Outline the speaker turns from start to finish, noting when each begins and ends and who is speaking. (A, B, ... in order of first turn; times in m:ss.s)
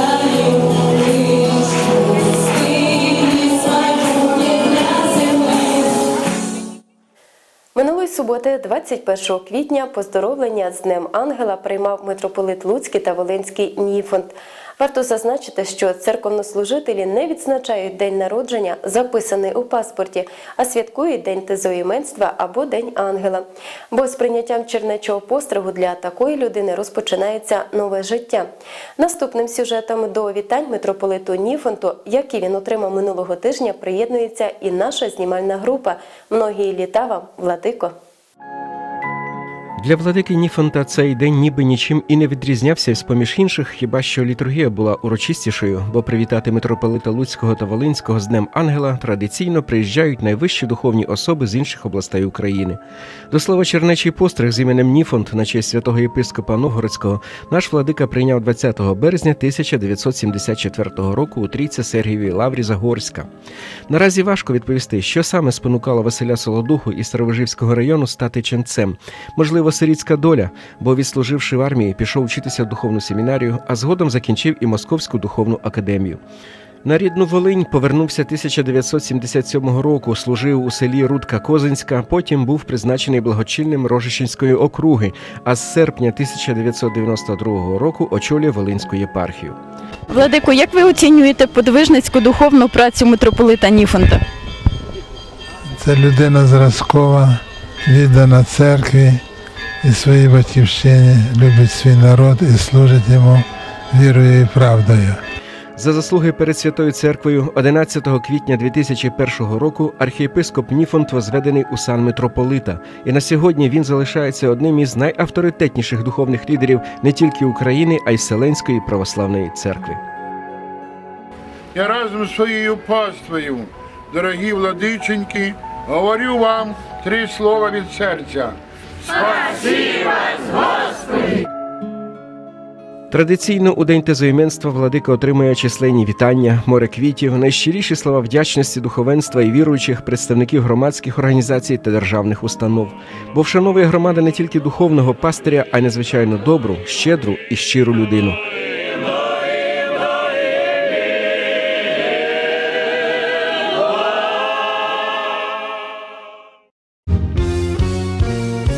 0:07.8-0:37.9 A
0:39.8-1:03.3 B
1:03.9-1:16.2 B
1:16.8-1:29.6 B
1:30.1-1:34.2 C
1:35.8-1:39.2 D
1:39.8-1:45.2 D
1:45.8-2:00.0 B
2:01.8-2:10.5 E
2:13.1-2:28.4 B